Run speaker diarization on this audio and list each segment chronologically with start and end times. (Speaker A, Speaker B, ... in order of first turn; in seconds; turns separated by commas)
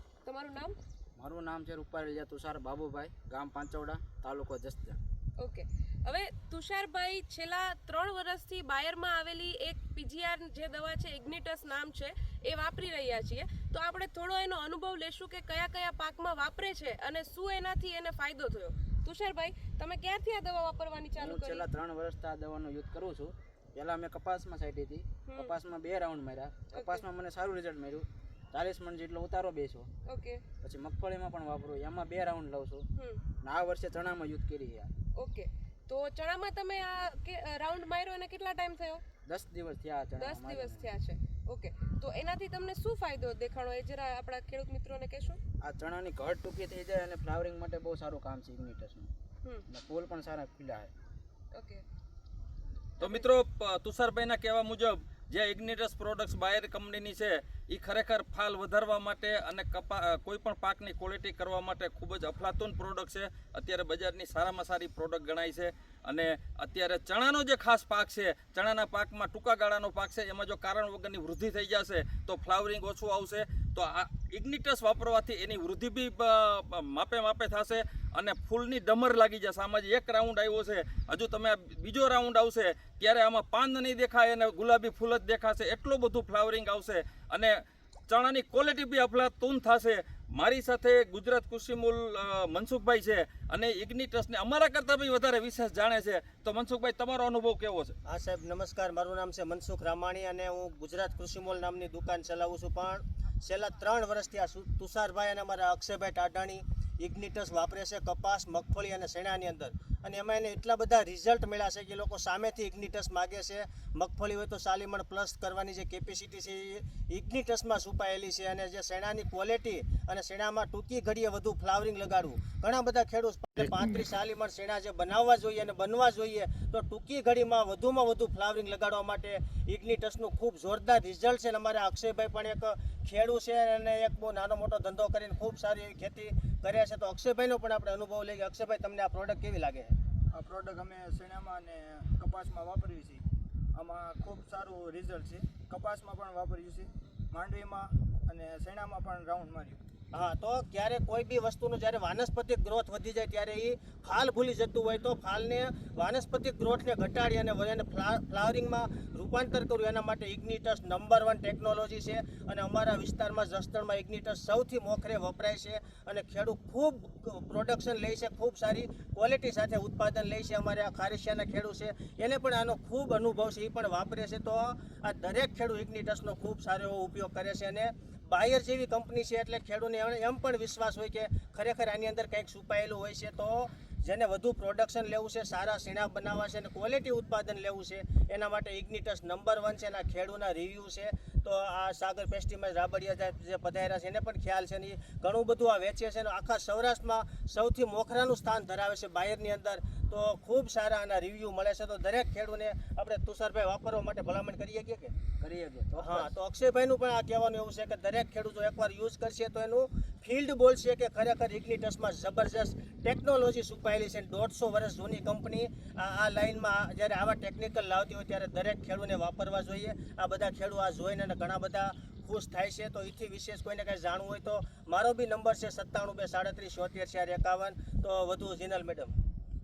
Speaker A: 0.2-0.7, Speaker B: 1.2-5.0, Speaker A: 5.4-21.7, Speaker B: 21.2-29.9, Speaker A: 25.2-25.6, Speaker A: 26.7-27.0, Speaker A: 30.0-30.4, Speaker B: 30.6-32.9, Speaker A: 33.0-33.2, Speaker B: 33.4-34.9, Speaker A: 35.1-39.0, Speaker B: 39.2-40.9, Speaker A: 40.1-45.4, Speaker B: 45.6-49.1, Speaker B: 49.7-50.9, Speaker A: 51.5-51.8, Speaker C: 53.0-97.9, Speaker D: 98.0-139.9, Speaker E: 140.3-143.2, Speaker E: 143.7-149.8, Speaker D: 150.1-205.1, Speaker B: 205.4-206.3, Speaker D: 205.9-229.1